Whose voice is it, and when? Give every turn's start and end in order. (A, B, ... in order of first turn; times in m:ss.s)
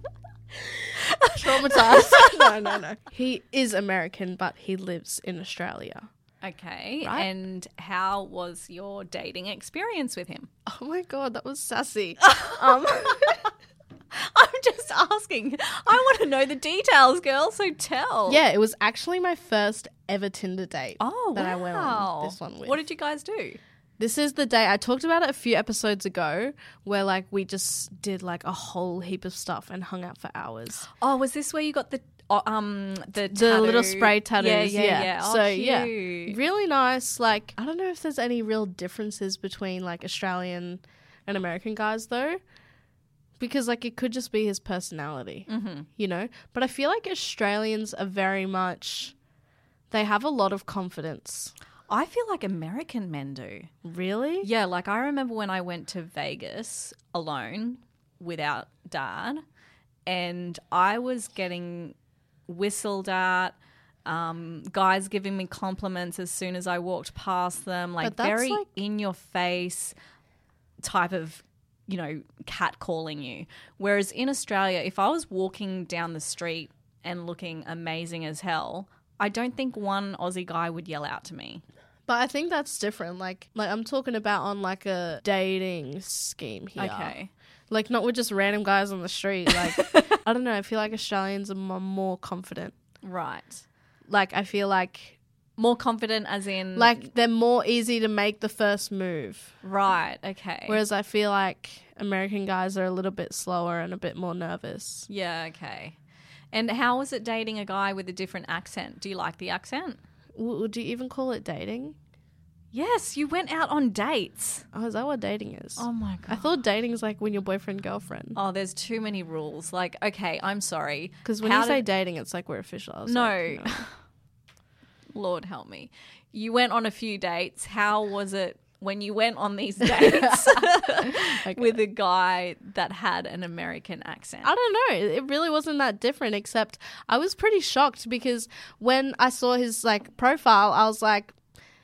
0:01.1-0:02.5 A
0:01.4-0:06.1 B
0:06.4-0:10.5 A
0:07.0-0:07.3 B
0:10.7-0:13.4 B
0:12.2-0:13.1 A
0:14.1-0:18.4 A
0:18.3-0:22.8 B
0:21.0-0:23.6 A
0:24.0-0:30.9 B
0:31.0-0:36.4 A
0:33.3-0:42.4 B
0:43.4-0:49.1 B
0:45.5-0:45.9 A
0:49.9-0:51.5 B
0:51.9-0:53.7 A
0:53.8-0:54.5 B
0:54.4-0:59.4 A
1:00.0-1:02.0 A
1:02.5-1:10.0 A
1:08.0-1:08.7 B
1:10.8-1:21.6 A
1:22.1-1:27.1 B
1:26.8-1:27.3 A
1:27.7-1:32.7 B
1:33.0-1:33.6 A
1:34.1-1:35.2 B
1:35.6-1:37.0 A
1:36.8-1:39.6 B
1:39.6-1:40.8 A
1:40.7-1:45.1 B
1:45.1-1:46.0 A
1:46.5-1:50.0 A
1:50.4-1:52.0 B
1:52.7-1:54.6 A
1:54.7-1:58.4 B
1:55.8-1:56.5 A
1:58.4-2:01.8 A
2:01.2-2:03.9 B
2:03.0-2:03.9 A
2:05.1-2:14.5 A
2:09.8-2:11.8 B
2:14.4-2:21.3 B